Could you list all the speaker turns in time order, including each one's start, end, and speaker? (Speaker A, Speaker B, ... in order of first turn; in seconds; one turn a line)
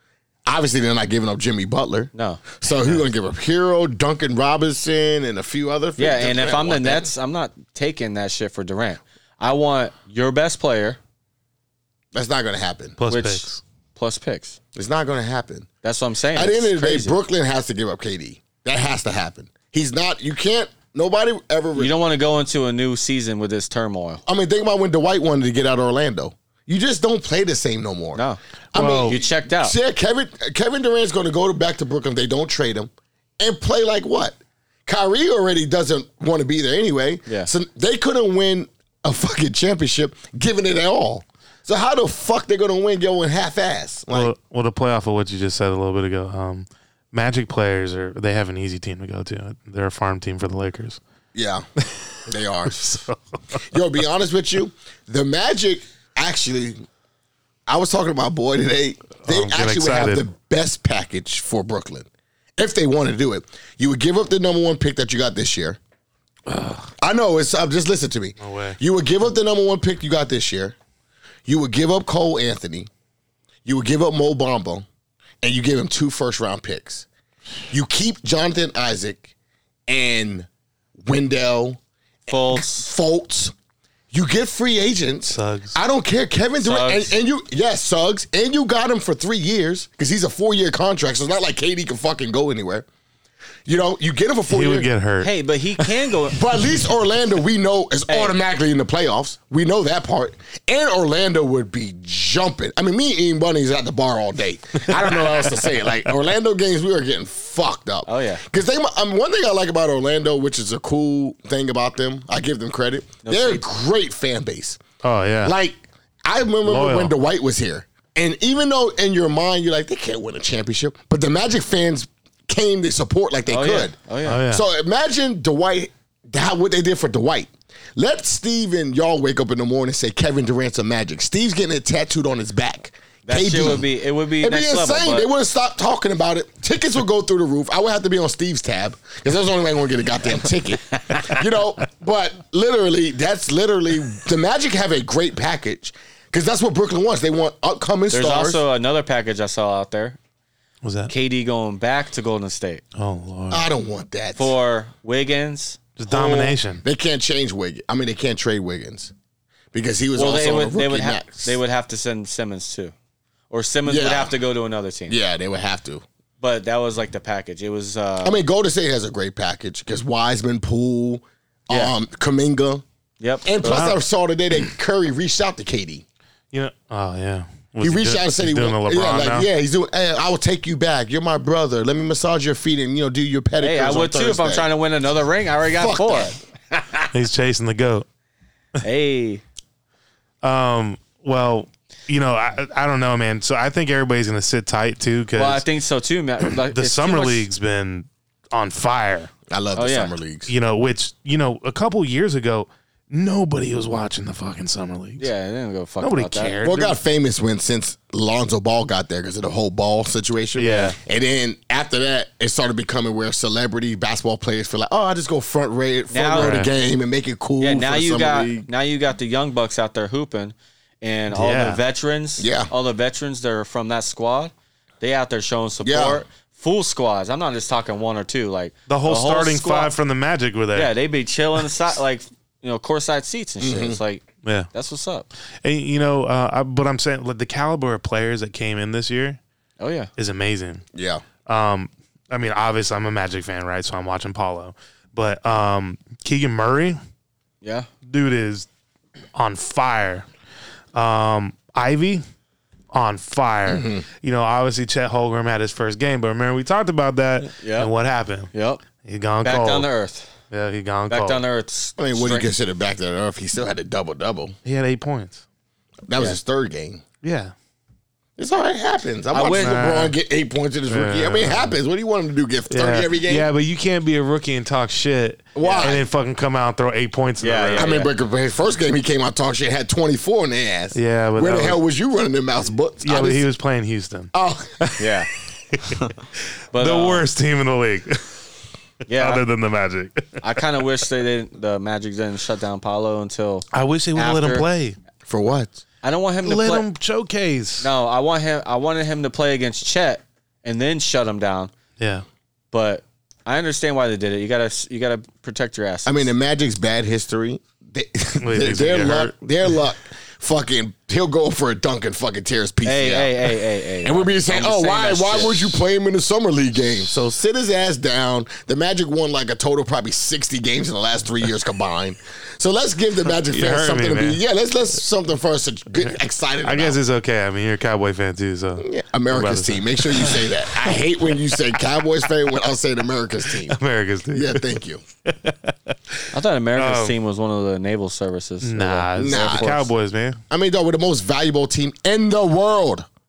Speaker A: 0.5-7.1
Speaker B: 2.1-3.0
Speaker B: 6.0-11.0
Speaker A: 12.1-13.0
Speaker C: 13.0-13.6
Speaker B: 13.1-14.6
Speaker A: 14.7-15.7
Speaker B: 15.8-17.2
Speaker A: 16.3-21.9
Speaker B: 21.8-24.2
Speaker A: 24.2-28.2
Speaker A: 28.7-44.3
Speaker C: 28.7-29.2
Speaker B: 29.0-29.7
Speaker C: 44.1-51.0
Speaker A: 51.3-51.6
Speaker A: 52.2-53.0
Speaker C: 52.8-53.1
Speaker A: 53.5-56.8
Speaker A: 57.7-65.8
Speaker C: 59.2-60.2
Speaker C: 66.5-66.9
Speaker A: 67.0-70.7
Speaker C: 68.4-68.8
Speaker A: 71.5-72.9
Speaker A: 73.6-74.8
Speaker A: 75.4-77.0
Speaker A: 77.7-79.3
Speaker A: 79.9-80.5
Speaker A: 81.0-83.5
Speaker B: 82.3-82.9
Speaker A: 84.1-92.9
Speaker C: 85.3-85.8
Speaker B: 86.6-87.1
Speaker A: 93.7-94.9
Speaker C: 94.5-95.9
Speaker B: 95.2-96.4
Speaker A: 96.3-114.8
Speaker B: 98.1-98.3
Speaker C: 105.2-105.6
Speaker B: 108.1-108.4
Speaker B: 113.2-113.6
Speaker C: 115.0-115.5
Speaker A: 115.4-133.9
Speaker C: 116.6-117.1
Speaker B: 123.5-124.4
Speaker C: 124.3-124.6
Speaker B: 133.3-135.3
Speaker A: 134.4-148.6
Speaker B: 148.1-150.2
Speaker C: 150.8-151.1
Speaker B: 151.1-152.8
Speaker C: 152.9-153.6
Speaker A: 153.5-154.5
Speaker B: 154.4-155.9
Speaker C: 156.0-156.8
Speaker A: 156.1-159.1
Speaker A: 159.7-161.6
Speaker B: 160.1-162.9
Speaker B: 163.5-165.2
Speaker A: 163.8-164.3
Speaker A: 165.1-166.0
Speaker B: 166.4-168.4
Speaker A: 168.2-172.8
Speaker B: 173.2-173.9
Speaker A: 173.4-176.0
Speaker C: 173.6-173.9
Speaker C: 176.5-179.5
Speaker A: 177.8-184.7
Speaker B: 183.6-186.4
Speaker A: 185.7-186.4
Speaker C: 187.1-188.1
Speaker B: 188.8-189.4
Speaker C: 190.4-195.6
Speaker B: 195.3-197.5
Speaker C: 196.7-199.3
Speaker A: 199.5-200.5
Speaker B: 199.8-200.1
Speaker C: 200.5-205.3
Speaker B: 205.2-206.6
Speaker C: 206.0-206.9
Speaker A: 206.6-218.7
Speaker C: 210.6-210.9
Speaker B: 216.1-216.7
Speaker C: 216.4-216.7
Speaker B: 217.6-229.9
Speaker C: 221.3-221.8
Speaker A: 222.4-222.7
Speaker A: 225.8-226.2
Speaker C: 228.9-230.9
Speaker B: 230.7-235.3
Speaker A: 233.6-234.0
Speaker C: 234.4-234.7
Speaker C: 235.6-239.4
Speaker B: 239.8-240.1
Speaker C: 240.2-240.8
Speaker A: 240.9-241.2
Speaker C: 241.4-247.0
Speaker B: 247.6-247.9
Speaker C: 248.0-248.7
Speaker C: 249.3-250.2
Speaker C: 250.9-252.2
Speaker C: 252.9-258.5
Speaker A: 253.7-254.0
Speaker B: 257.6-257.9
Speaker B: 258.5-258.8
Speaker C: 259.0-259.9
Speaker B: 259.4-260.3
Speaker C: 260.5-261.4
Speaker B: 261.1-262.5
Speaker A: 262.0-264.5
Speaker C: 264.6-265.4
Speaker A: 266.1-267.0
Speaker C: 267.2-267.5
Speaker A: 268.4-273.5
Speaker B: 269.3-269.8
Speaker C: 269.6-270.1
Speaker C: 270.9-271.8
Speaker C: 272.7-277.9
Speaker A: 275.5-276.0
Speaker B: 275.6-276.0
Speaker B: 277.4-278.1
Speaker A: 277.8-283.4
Speaker C: 280.9-281.8
Speaker C: 283.0-285.1
Speaker A: 284.3-284.9
Speaker B: 285.0-285.3
Speaker C: 285.7-286.1
Speaker B: 286.7-287.2
Speaker C: 286.7-288.4
Speaker B: 289.1-289.4
Speaker C: 289.1-290.4
Speaker B: 290.4-294.6
Speaker C: 293.7-294.9
Speaker A: 295.2-295.8
Speaker B: 296.0-296.9
Speaker C: 296.4-297.9
Speaker B: 297.8-301.7
Speaker C: 302.0-302.2
Speaker B: 302.7-306.3
Speaker A: 306.1-327.0
Speaker C: 308.4-309.4
Speaker B: 312.8-315.8
Speaker C: 323.4-324.4
Speaker C: 326.6-331.5
Speaker A: 328.8-333.8
Speaker C: 333.6-335.9
Speaker A: 334.3-335.0
Speaker B: 336.3-339.9
Speaker C: 336.8-337.1
Speaker C: 338.6-340.4
Speaker A: 339.2-339.7
Speaker A: 340.5-343.1